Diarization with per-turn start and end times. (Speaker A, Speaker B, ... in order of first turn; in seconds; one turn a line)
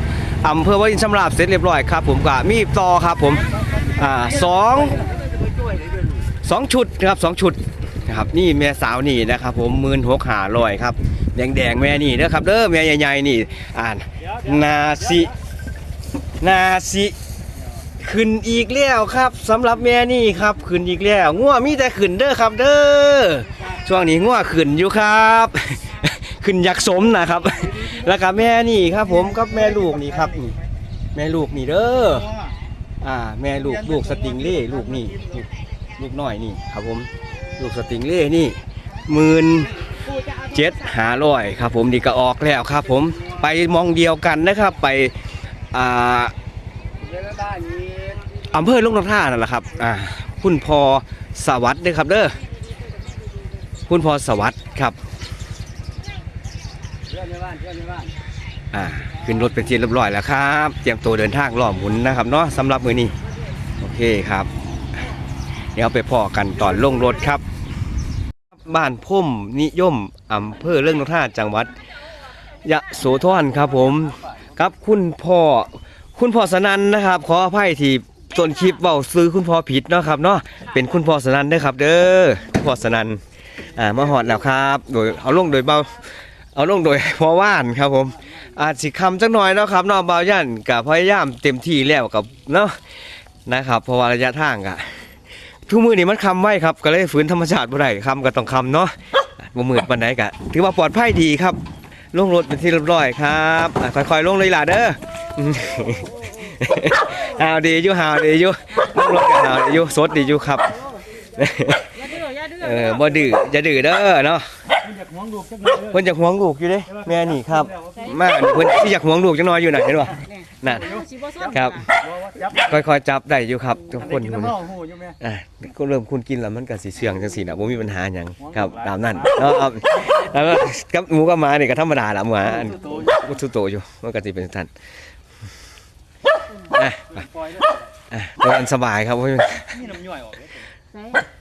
Speaker A: 0.4-5.1
Speaker A: 6.4-15.3
Speaker A: 16.4-17.1
Speaker A: 18.0-30.6
Speaker A: 31.1-32.3
Speaker A: 33.0-45.1
Speaker A: 45.7-46.3
Speaker B: 47.0-48.2
Speaker A: 48.5-52.4
Speaker A: 53.9-55.0
Speaker B: 57.1-58.1
Speaker A: 58.7-63.1
Speaker A: 63.8-64.5
Speaker A: 65.8-67.4
Speaker A: 68.7-71.8
Speaker A: 72.6-92.8
Speaker A: 93.5-95.0
Speaker A: 95.7-101.6
Speaker A: 102.1-110.8
Speaker A: 111.3-114.5
Speaker C: 112.0-113.0
Speaker B: 114.9-115.9
Speaker A: 115.7-120.9
Speaker B: 117.7-118.1
Speaker C: 120.3-121.8
Speaker A: 121.5-121.9
Speaker B: 122.0-122.7
Speaker A: 122.5-134.7
Speaker B: 124.2-125.2
Speaker B: 128.6-129.0
Speaker A: 136.7-137.3
Speaker B: 137.3-137.7
Speaker A: 138.1-139.9
Speaker B: 139.9-140.6
Speaker C: 140.9-141.3